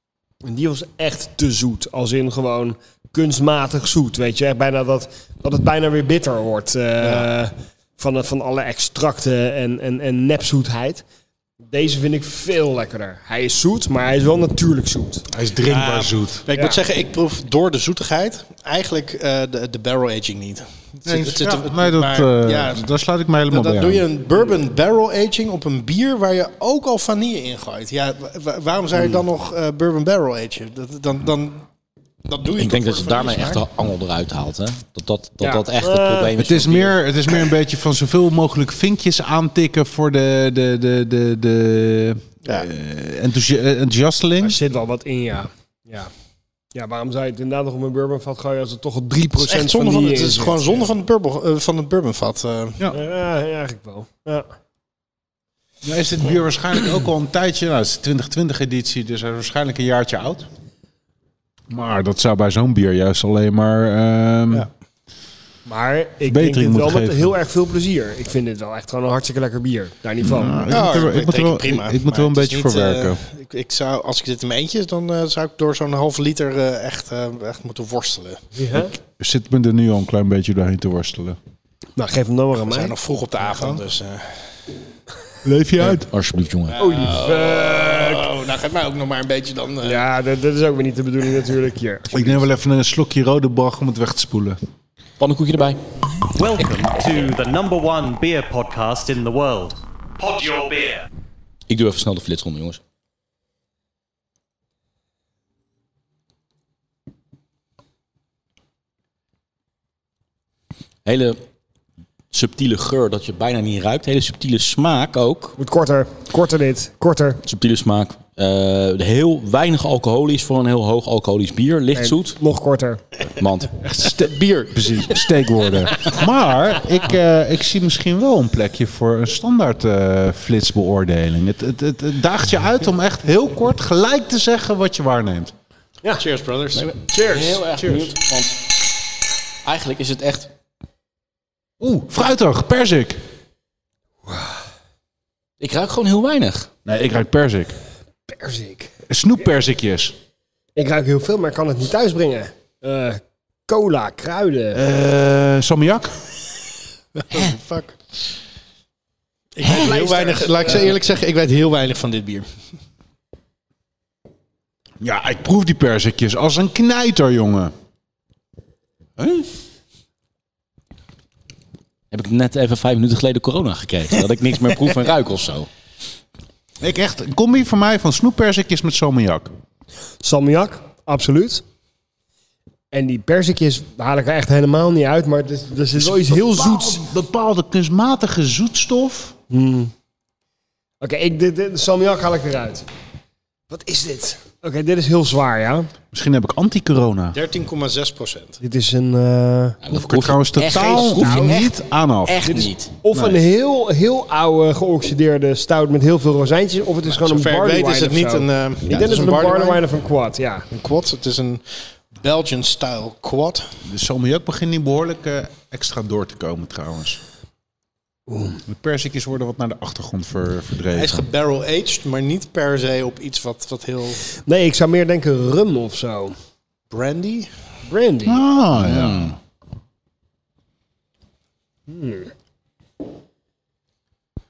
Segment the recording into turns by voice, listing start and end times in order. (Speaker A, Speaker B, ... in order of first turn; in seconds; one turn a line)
Speaker A: 0.4-11.0
Speaker B: 7.0-7.3
Speaker A: 11.7-15.2
Speaker C: 15.3-16.5
Speaker B: 15.6-22.9
Speaker A: 16.6-16.8
Speaker C: 21.1-24.1
Speaker B: 23.5-31.6
Speaker B: 32.3-33.6
Speaker D: 32.6-37.0
Speaker A: 35.4-36.3
Speaker C: 36.4-44.6
Speaker A: 44.4-46.1
Speaker A: 46.7-50.9
Speaker B: 49.4-52.8
Speaker A: 52.9-54.5
Speaker C: 55.8-60.5
Speaker C: 61.7-64.7
Speaker A: 65.7-70.7
Speaker C: 66.2-67.3
Speaker C: 70.2-73.2
Speaker B: 70.7-78.4
Speaker A: 78.6-78.9
Speaker C: 79.2-81.4
Speaker A: 82.0-82.9
Speaker B: 82.6-84.4
Speaker C: 85.4-86.1
Speaker D: 86.0-86.8
Speaker B: 86.7-90.0
Speaker A: 86.8-88.3
Speaker A: 89.8-92.5
Speaker C: 92.1-94.6
Speaker D: 95.2-95.8
Speaker E: 96.3-101.1
Speaker D: 101.7-102.8
Speaker D: 111.0-111.4
Speaker D: 112.3-115.6
Speaker A: 115.6-117.4
Speaker D: 117.4-122.4
Speaker A: 122.0-123.0
Speaker D: 123.4-123.7
Speaker C: 123.8-135.5
Speaker B: 124.0-125.2
Speaker B: 136.2-137.0
Speaker D: 136.8-138.7
Speaker A: 137.1-137.6
Speaker C: 137.8-138.1
Speaker D: 139.7-140.5
Speaker C: 141.8-143.2
Speaker A: 144.2-144.6
Speaker D: 145.6-146.7
Speaker C: 146.9-147.7
Speaker A: 148.3-148.9
Speaker C: 149.1-150.1
Speaker A: 150.8-154.8
Speaker C: 154.7-156.2
Speaker B: 157.2-158.0
Speaker B: 159.6-162.5
Speaker A: 159.6-160.9
Speaker C: 165.0-167.7
Speaker C: 169.2-169.5
Speaker D: 172.1-175.7
Speaker C: 176.8-179.5
Speaker A: 180.2-181.6
Speaker A: 182.9-187.0
Speaker C: 185.9-189.3
Speaker A: 189.5-189.9
Speaker A: 191.0-192.8
Speaker A: 193.7-195.9
Speaker C: 196.1-197.4
Speaker B: 197.3-198.6
Speaker A: 198.6-199.8
Speaker D: 199.8-202.9
Speaker C: 199.9-203.4
Speaker A: 200.8-201.6
Speaker A: 202.5-210.7
Speaker B: 207.1-209.8
Speaker B: 210.7-211.6
Speaker B: 212.2-213.7
Speaker C: 213.9-217.2
Speaker A: 218.3-218.6
Speaker C: 218.7-221.2
Speaker B: 220.9-224.3
Speaker A: 224.4-226.3
Speaker B: 226.9-227.5
Speaker A: 227.9-228.4
Speaker C: 228.2-229.4
Speaker D: 228.8-229.3
Speaker A: 231.9-232.3